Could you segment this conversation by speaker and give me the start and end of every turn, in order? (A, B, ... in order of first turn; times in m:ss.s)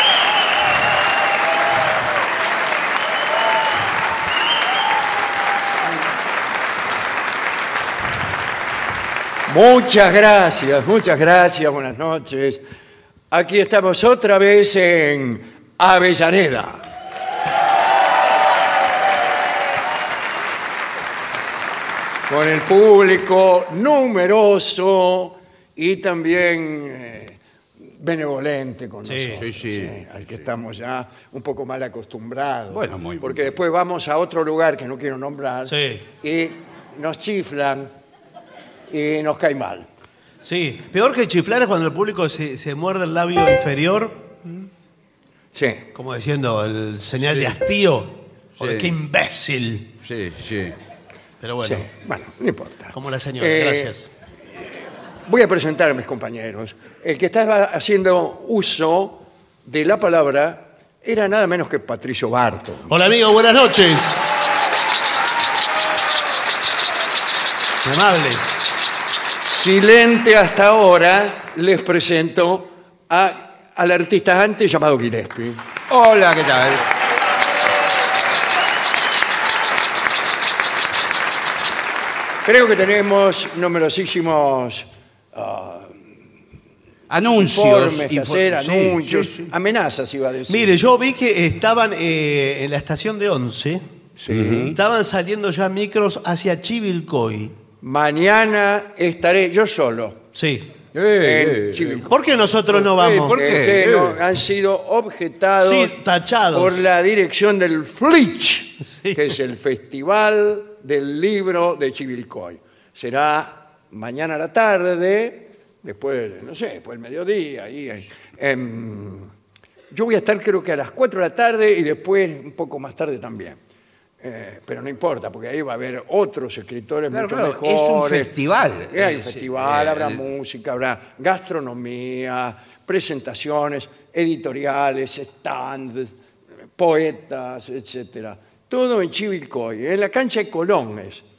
0:09.5-0:12.6 A
0:13.3-0:16.8 A
0:22.3-0:37.9 A
0:29.0-0:29.5 B
0:29.4-0:30.3 C
0:32.7-0:33.5 C
0:35.7-0:36.0 B
0:38.9-0:39.9 A
0:40.4-0:44.3 B
0:45.5-0:45.9 A
0:45.9-0:50.0 B
0:48.6-0:49.0 C
0:50.0-0:50.8 C
0:51.4-0:51.9 B
0:51.6-0:54.0 A
0:52.9-0:54.1 B
0:55.2-1:03.0 A
1:02.9-1:04.5 B
1:07.8-1:08.7 B
1:09.5-1:15.6 A
1:15.9-1:16.9 C
1:22.4-1:26.0 A
1:27.1-1:29.5 C
1:27.4-1:30.8 A
1:30.5-1:33.8 B
1:34.2-1:34.7 A
1:34.3-1:34.8 C
1:34.6-1:37.6 B
1:37.8-1:40.2 A
1:40.4-1:40.7 B
1:40.9-1:42.1 C
1:41.2-1:42.1 A
1:42.1-1:43.4 B
1:42.7-1:46.0 A
1:43.0-1:44.2 C
1:45.6-1:46.8 B
1:46.5-1:59.3 A
1:48.8-1:49.3 B
1:59.9-2:03.6 A
2:04.2-2:08.3 A
2:07.1-2:10.2 C
2:08.9-2:16.1 A
2:16.8-2:21.2 A